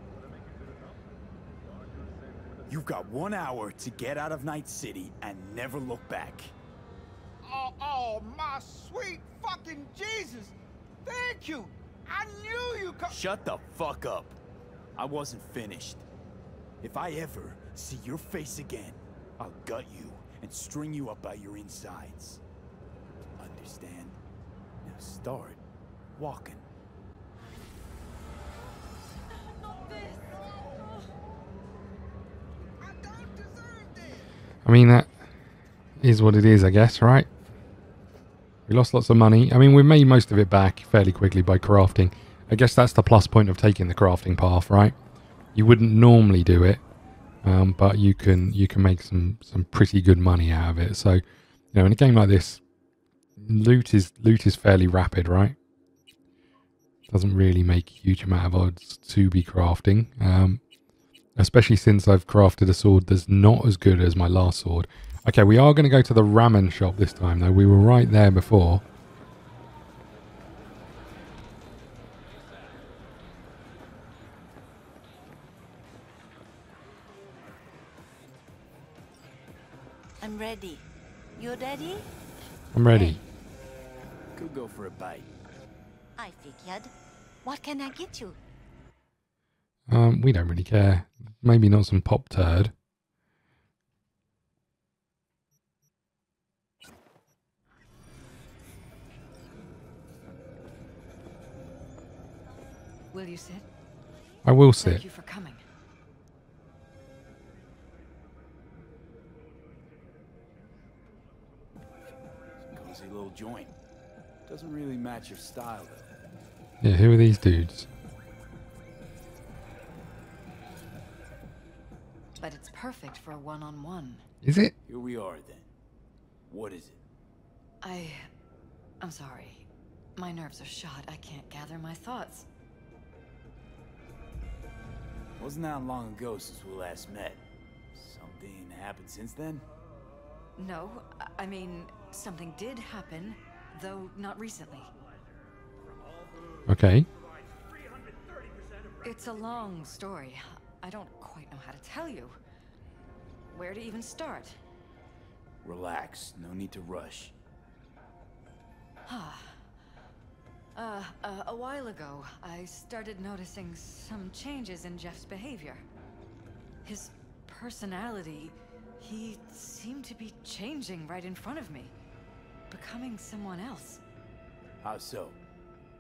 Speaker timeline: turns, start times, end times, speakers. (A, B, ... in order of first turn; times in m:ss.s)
0:02.7-0:06.5 A
0:07.4-0:13.2 B
0:13.1-0:14.4 A
0:15.0-0:16.1 A
0:16.8-0:22.4 A
0:23.4-0:24.2 A
0:24.8-0:25.6 A
0:26.2-0:26.7 A
0:29.9-0:30.6 B
0:32.8-0:34.3 B
0:34.6-0:35.1 C
0:36.0-0:37.3 C
0:38.7-0:45.0 C
0:45.6-0:46.8 C
0:47.4-0:51.2 C
0:51.7-0:52.6 C
0:53.4-0:55.6 C
0:57.1-1:00.6 C
1:01.4-1:08.8 C
1:20.2-1:20.8 D
1:21.4-1:22.1 D
1:22.7-1:23.2 C
1:22.9-1:23.2 D
1:24.4-1:25.3 A
1:26.2-1:26.9 D
1:27.4-1:28.4 D
1:29.9-1:32.7 C
1:43.1-1:43.7 E
1:44.4-1:45.0 C
1:44.8-1:45.6 E
1:52.7-1:53.7 A
1:54.5-1:56.1 A
1:56.8-1:57.9 C
2:02.4-2:04.2 E
2:04.4-2:04.7 C
2:04.8-2:05.7 A
2:06.5-2:07.0 A
2:07.8-2:08.3 E
2:09.0-2:12.5 E
2:15.4-2:19.7 A
2:20.6-2:24.9 E
2:26.7-2:27.1 C
2:29.0-2:32.4 E
2:33.5-2:34.6 E
2:35.6-2:37.3 A
2:39.1-2:39.6 E
2:40.8-2:45.8 E
2:46.8-2:51.9 E
2:52.7-2:54.0 E
2:54.8-2:55.4 A